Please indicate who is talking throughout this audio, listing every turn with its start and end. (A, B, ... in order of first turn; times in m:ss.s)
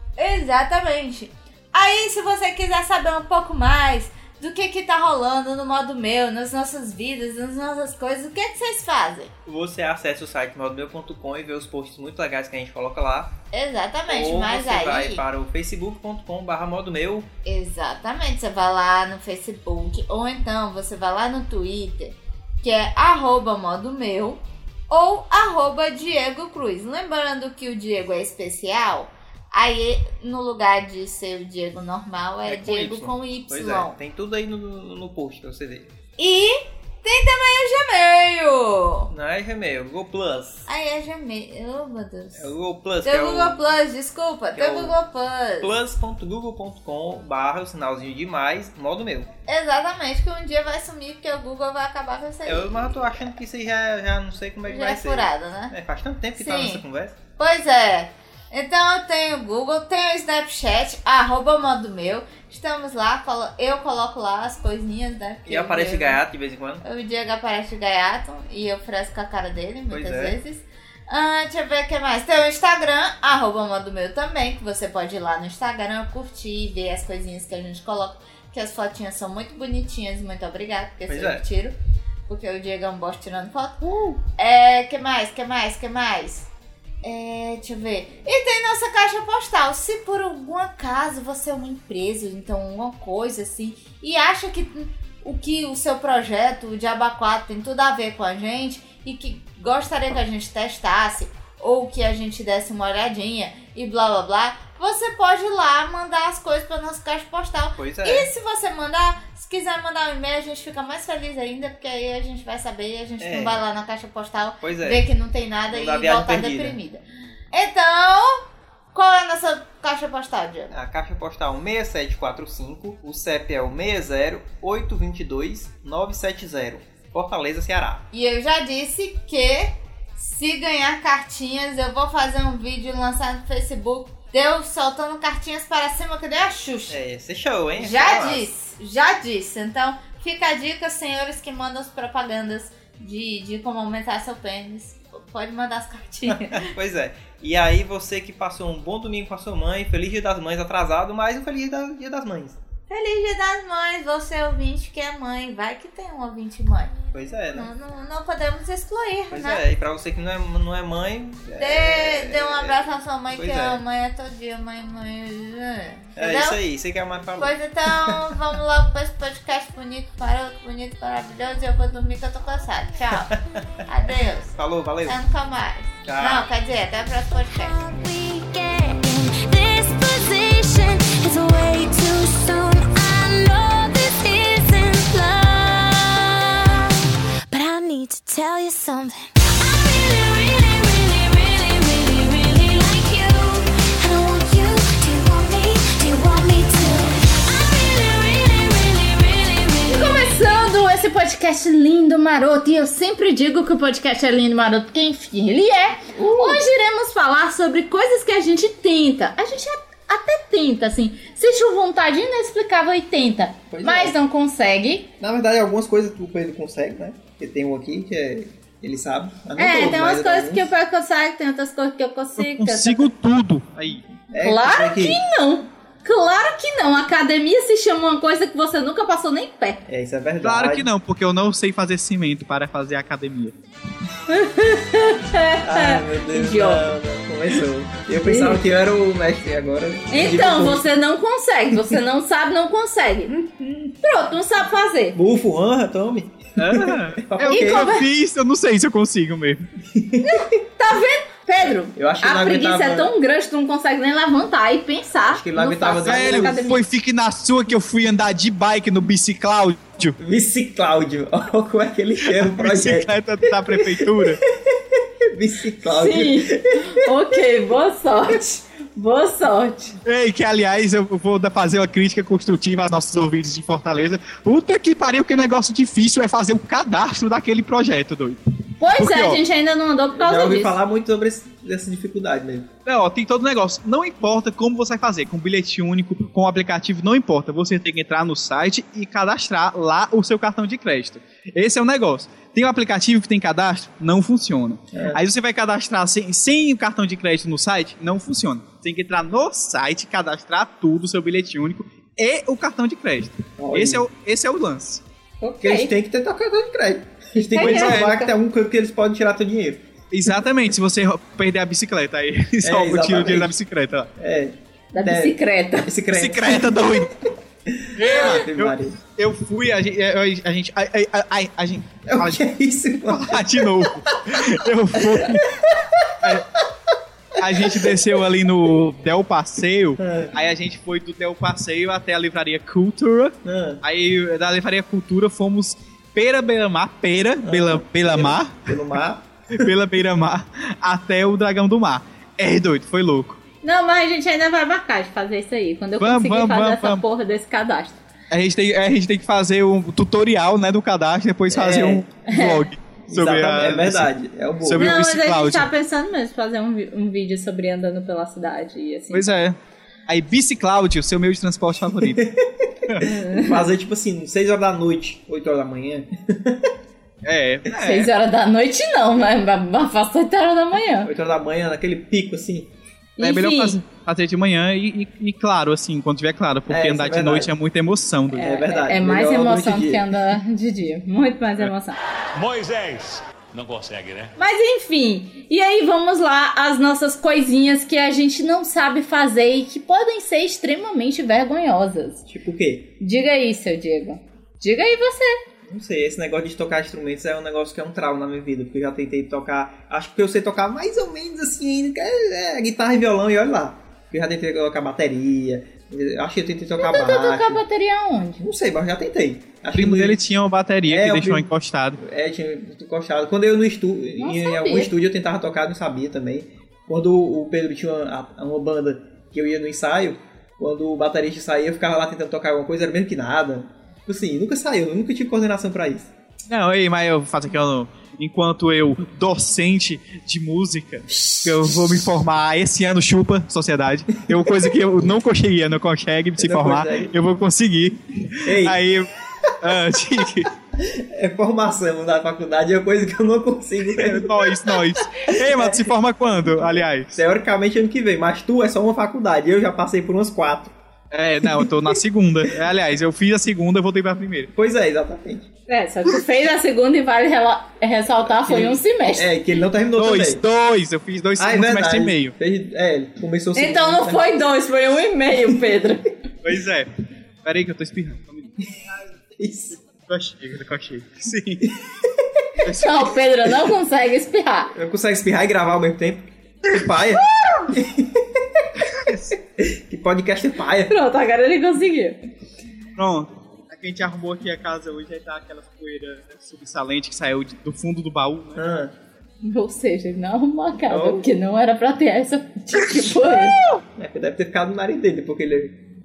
0:00.2-0:09.3 A
0:09.5-0:13.3 B
0:13.5-0:15.2 A
0:14.1-0:17.3 B
0:17.5-0:34.0 A
0:32.4-0:35.9 B
0:36.2-0:39.1 A
0:39.1-0:40.7 B
0:40.7-0:42.5 A
0:42.4-0:43.6 B
0:43.0-0:45.7 A
0:44.5-0:45.0 B
0:45.6-0:49.3 B
0:49.5-0:52.7 A
0:52.5-0:57.2 B
0:54.7-0:55.7 A
0:56.4-0:56.8 A
0:57.4-1:06.2 A
1:05.5-1:06.8 B
1:06.8-1:21.8 A
1:09.9-1:10.4 B
1:21.1-1:21.4 B
1:22.3-1:26.5 A
1:23.9-1:24.2 B
1:27.0-2:00.7 A
1:47.8-1:48.3 B
1:53.2-1:53.6 B
1:54.6-1:55.1 B
1:55.7-1:56.8 B
2:00.7-2:08.0 B
2:08.1-2:17.0 A
2:16.9-2:18.5 B
2:17.8-2:26.7 A
2:26.3-2:32.6 B
2:32.9-2:37.0 A
2:37.1-2:37.7 B
2:37.5-2:39.6 A
2:39.3-2:43.8 B
2:41.6-2:46.6 A
2:46.2-2:48.4 B
2:47.4-2:57.8 A
2:54.6-2:55.2 B
2:56.0-2:56.5 B
2:57.5-3:07.0 C
3:07.5-3:20.6 C
3:19.9-3:35.1 D
3:26.1-3:26.6 B
3:33.7-3:34.2 B
3:35.2-3:40.7 B
3:39.6-3:43.1 D
3:42.4-3:44.1 E
3:44.3-3:45.2 B
3:44.4-3:49.8 D
3:49.9-3:50.9 B
3:50.4-3:53.6 E
3:54.3-3:56.9 D
3:55.6-4:00.9 B
3:58.2-3:58.6 D
4:00.1-4:03.4 D
4:03.4-4:03.9 B
4:04.0-4:05.2 D
4:05.2-4:08.0 B
4:06.6-4:09.7 E
4:07.5-4:08.0 D
4:09.9-4:10.5 B
4:10.2-4:16.8 D
4:11.9-4:13.1 B
4:15.2-4:16.6 B
4:16.0-4:20.2 E
4:20.2-4:27.0 B
4:22.2-4:24.4 E
4:25.9-4:30.0 D
4:30.0-4:39.4 E
4:38.8-4:40.8 D
4:40.1-4:42.7 B
4:42.9-5:05.0 E
4:54.9-4:55.2 B
5:03.6-5:04.0 B
5:05.4-5:05.9 D
5:05.6-5:09.8 B
5:07.4-5:08.3 D
5:07.6-5:08.2 E
5:10.1-5:14.1 E
5:12.6-5:13.6 B
5:14.2-5:17.1 B
5:14.9-5:15.9 D
5:16.1-5:17.2 E
5:17.7-5:19.0 B
5:18.0-5:22.4 E
5:22.1-5:24.4 B
5:23.0-5:25.5 E
5:25.0-5:26.2 B
5:27.4-5:38.8 E
5:27.4-5:28.0 B
5:30.0-5:30.3 B
5:33.4-5:33.8 B
5:37.4-5:39.7 B
5:39.6-5:43.4 E
5:43.6-5:48.0 D
5:46.0-5:47.0 E
5:48.3-5:54.1 E
5:51.5-5:52.1 B
5:52.3-5:52.7 D
5:53.1-5:55.0 B
5:54.6-5:55.7 E
5:54.8-5:59.3 D
5:59.1-5:59.6 E
6:00.1-6:02.2 E
6:02.0-6:06.7 B
6:03.0-6:03.7 D
6:07.2-6:08.1 E
6:07.7-6:11.1 D
6:11.0-6:12.7 B
6:13.2-6:13.8 D
6:13.2-6:18.5 E
6:16.7-6:17.5 B
6:18.4-6:22.0 D
6:18.4-6:20.2 B
6:22.3-6:24.3 F
6:24.4-6:32.2 D
6:32.3-6:32.9 B
6:33.0-6:35.4 D
6:35.7-6:47.6 B
6:46.8-6:48.4 D
6:48.4-6:50.2 B
6:49.7-6:52.0 E
6:50.9-7:06.1 B
6:54.2-6:54.9 D
7:06.5-7:20.5 E
7:16.4-7:17.2 B
7:18.4-7:18.9 B
7:20.8-7:25.9 B
7:23.9-7:27.2 E
7:26.6-7:30.7 B
7:31.1-7:34.5 E
7:31.4-7:31.9 B
7:34.6-7:35.5 B
7:35.7-7:39.3 D
7:38.3-7:40.4 B
7:40.0-7:42.3 E
7:41.4-7:44.4 B
7:43.6-7:46.1 D
7:46.4-7:46.9 E
7:47.4-7:48.6 E
7:49.4-7:49.8 B
7:49.9-7:51.7 E
7:51.8-7:52.5 B
7:52.6-7:53.1 E
7:52.7-7:54.7 D
7:54.7-7:58.7 B
7:57.4-7:57.7 D
7:58.9-7:59.4 E
7:59.6-8:00.9 B
8:00.9-8:02.2 D
8:03.0-8:08.6 E
8:08.6-8:08.9 B
8:09.4-8:13.6 D
8:10.9-8:11.3 B
8:14.0-8:15.8 B